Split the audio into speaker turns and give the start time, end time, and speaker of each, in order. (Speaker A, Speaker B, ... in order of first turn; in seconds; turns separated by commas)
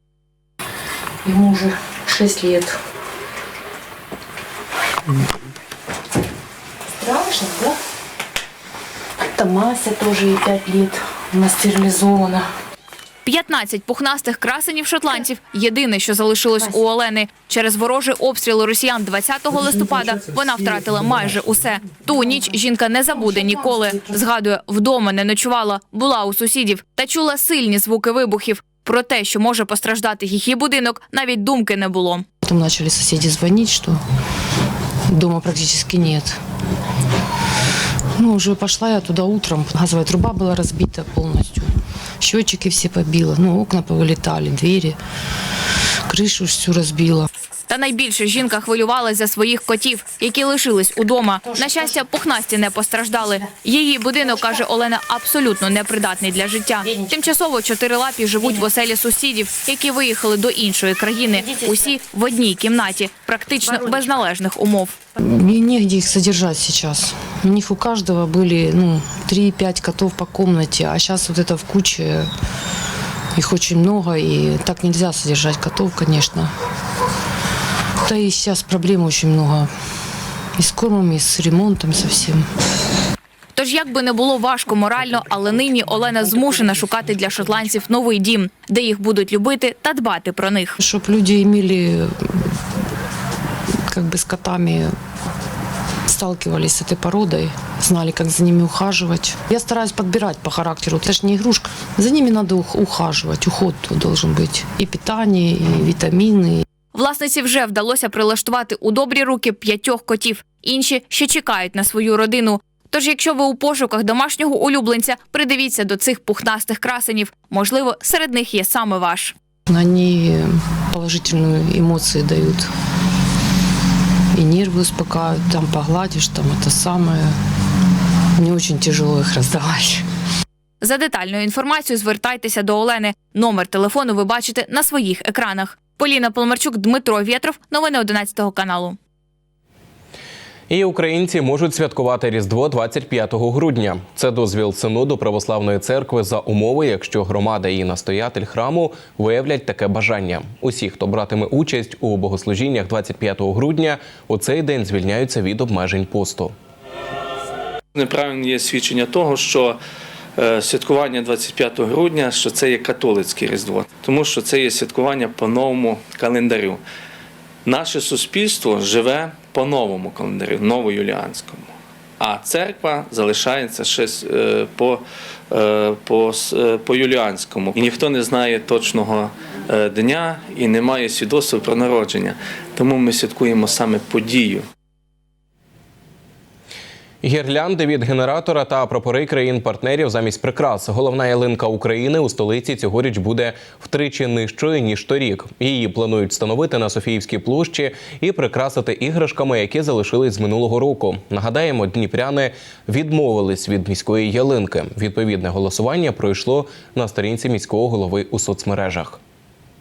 Speaker A: 1.3-2.7, Speaker A: 7.3-7.7, Speaker A: 9.4-12.4, Speaker B: 13.2-32.2, Speaker A: 32.4-34.0, Speaker A: 35.1-36.3, Speaker A: 38.2-41.7, Speaker A: 42.2-45.0, Speaker A: 46.1-47.3, Speaker B: 47.7-65.0, Speaker A: 65.2-72.3, Speaker A: 73.3-76.5, Speaker A: 78.1-79.7, Speaker A: 80.6-82.4, Speaker B: 83.5-90.8, Speaker A: 90.8-92.4, Speaker A: 93.9-94.9, Speaker A: 96.1-106.6, Speaker B: 106.9-119.3, Speaker A: 119.7-122.7, Speaker A: 124.3-127.3, Speaker A: 128.4-130.0, Speaker B: 130.8-139.0, Speaker C: 140.7-156.5, Speaker D: 157.9-159.8, Speaker D: 160.3-166.8, Speaker D: 167.6-184.7, Speaker C: 187.2-209.2